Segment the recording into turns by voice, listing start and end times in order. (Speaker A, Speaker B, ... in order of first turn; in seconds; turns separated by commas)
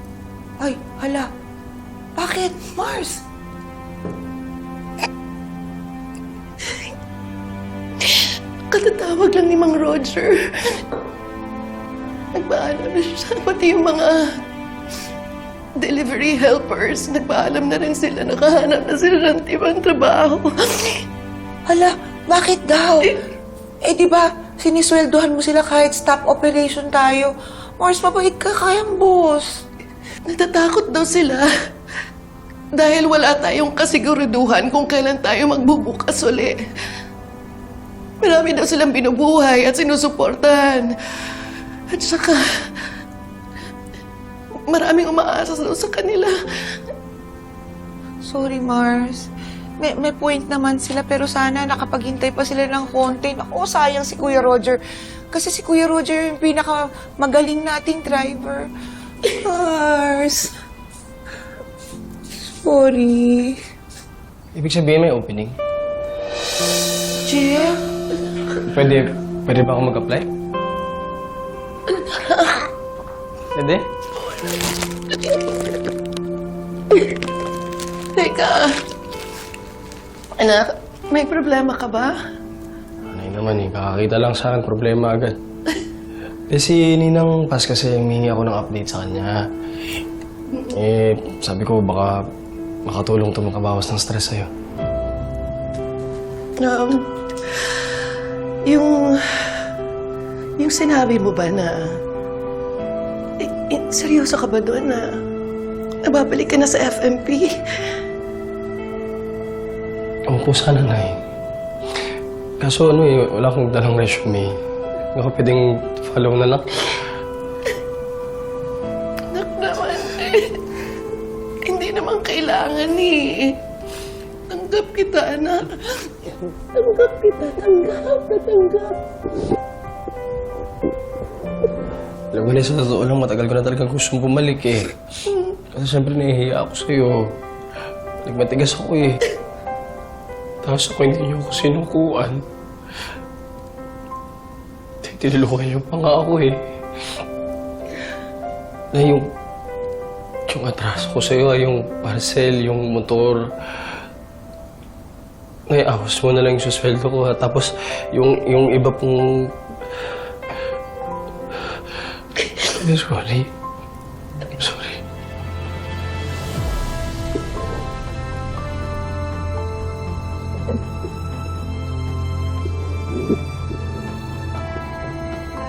Speaker A: 0.6-1.3, Speaker A: 2.1-3.2, Speaker B: 8.0-10.8, Speaker B: 12.3-14.2, Speaker B: 15.8-21.0, Speaker A: 21.7-23.2, Speaker A: 23.8-29.6, Speaker B: 30.3-31.5, Speaker B: 32.8-36.6, Speaker B: 38.2-40.9, Speaker B: 41.9-42.7, Speaker B: 44.7-46.3, Speaker A: 48.2-49.3, Speaker A: 49.8-58.7, Speaker A: 59.2-60.5, Speaker A: 62.4-63.6, Speaker C: 64.5-65.5, Speaker A: 67.2-67.8, Speaker C: 68.6-70.3, Speaker B: 71.9-72.7, Speaker C: 73.5-73.9, Speaker B: 75.1-75.5, Speaker B: 78.1-78.7, Speaker B: 80.4-82.2, Speaker C: 83.1-85.4, Speaker C: 86.5-89.4, Speaker C: 90.7-92.2, Speaker C: 92.8-94.5, Speaker B: 96.6-98.1, Speaker B: 98.7-99.7, Speaker B: 100.6-101.9, Speaker B: 103.4-105.1, Speaker B: 106.0-107.6, Speaker C: 110.3-111.2, Speaker C: 112.6-114.6, Speaker C: 115.1-117.0, Speaker B: 119.3-120.6, Speaker B: 121.6-123.5, Speaker B: 124.5-129.0, Speaker C: 132.3-134.9, Speaker C: 135.7-137.3, Speaker C: 138.2-139.2, Speaker C: 140.6-142.4, Speaker C: 145.0-146.6, Speaker C: 148.9-149.2, Speaker C: 150.5-153.9, Speaker C: 155.7-159.5, Speaker C: 162.6-163.5, Speaker C: 164.6-165.0